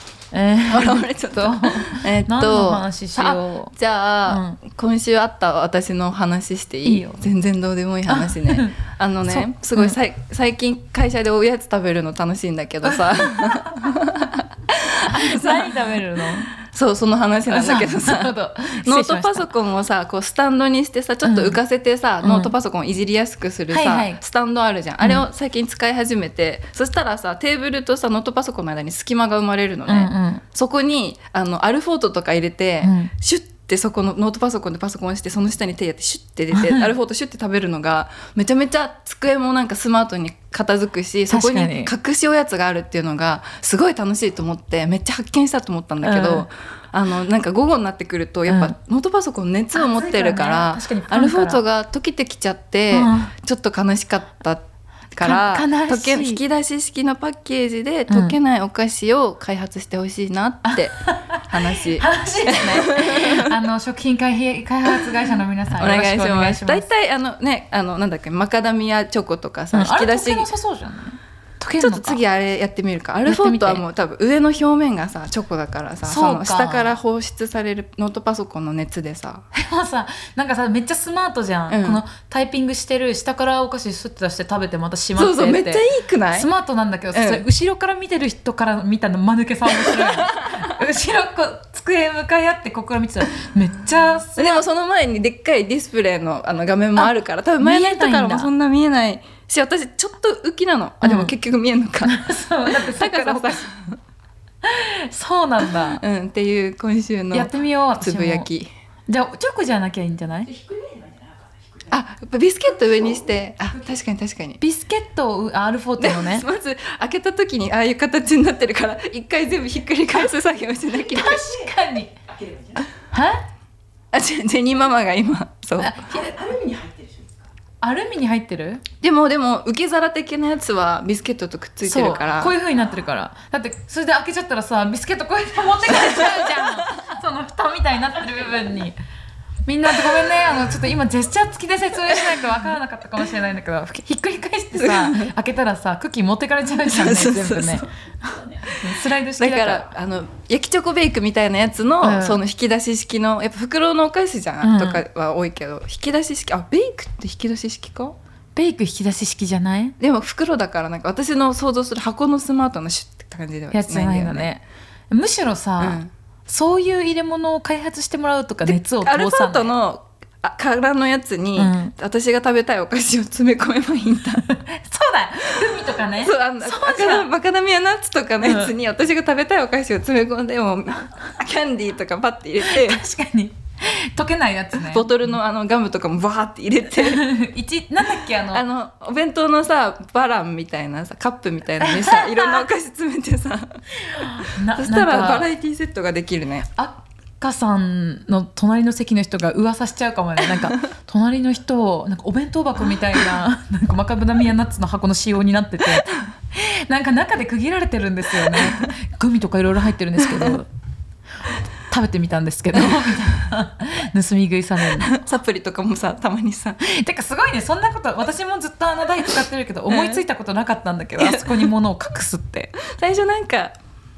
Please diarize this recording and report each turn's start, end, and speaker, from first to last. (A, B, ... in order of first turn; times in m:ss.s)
0:00.3-0:03.7 A
0:00.7-0:16.0 B
0:04.3-0:04.6 A
0:06.8-0:07.2 A
0:08.1-0:10.0 A
0:12.9-0:13.9 A
0:15.0-0:16.5 A
0:16.5-1:03.5 B
0:17.5-0:19.5 A
0:21.2-0:21.6 A
0:22.2-0:22.5 A
0:23.7-0:24.2 A
0:29.9-0:30.4 A
0:32.8-0:33.1 A
0:36.5-0:36.9 A
0:41.3-0:41.9 A
0:46.0-0:46.5 A
0:48.5-0:48.8 A
0:49.7-0:51.6 A
0:52.9-0:53.3 A
0:55.2-0:56.4 A
0:58.1-0:58.4 A
1:00.6-1:06.9 A
1:04.9-1:05.1 B
1:05.8-1:10.5 B
1:09.7-1:12.2 A
1:11.8-1:19.4 B
1:13.2-1:13.8 A
1:16.0-1:17.0 A
1:19.5-1:34.6 A
1:21.7-1:22.0 B
1:25.2-1:26.5 B
1:27.1-1:27.4 B
1:29.7-1:30.8 B
1:34.4-1:44.0 B
1:37.0-1:38.5 A
1:41.0-1:41.3 A
1:42.0-1:43.6 A
1:44.6-1:46.0 A
1:45.8-1:48.7 B
1:47.3-1:48.5 A
1:49.1-1:50.6 A
1:51.9-1:54.6 B
1:54.6-1:56.5 A
1:56.0-2:01.6 B
2:01.0-2:02.1 A
2:03.1-2:03.4 A
2:04.1-2:06.1 B
2:05.8-2:06.5 A
2:07.8-2:08.8 A
2:09.0-2:12.5 B
2:11.8-2:19.0 A
2:15.9-2:16.7 B
2:19.7-2:27.9 A
2:24.8-2:25.3 B
2:26.7-2:27.9 B
2:28.6-2:38.2 B
2:28.6-2:29.9 A
2:32.0-2:32.4 A
2:34.6-2:35.0 A
2:38.5-2:40.0 A
2:40.0-2:44.5 B
2:43.7-2:49.7 A
2:45.8-2:46.1 B
2:48.7-2:54.5 B
2:51.6-2:51.9 A
2:54.5-2:57.3 A
2:55.6-3:03.0 B
2:58.4-2:58.7 A
3:02.6-3:05.1 A
3:04.8-3:07.2 B
3:07.0-3:08.6 A
3:08.5-3:13.8 B
3:11.8-3:12.6 A
3:14.1-3:15.5 A
3:14.4-3:16.7 B
3:16.8-3:30.7 A
3:28.5-3:28.9 B
3:30.3-3:30.6 B
3:31.9-3:35.2 A
3:35.0-3:36.8 B
3:36.8-3:42.8 A
3:39.9-3:40.2 B
3:41.2-3:41.7 B
3:42.8-3:43.8 B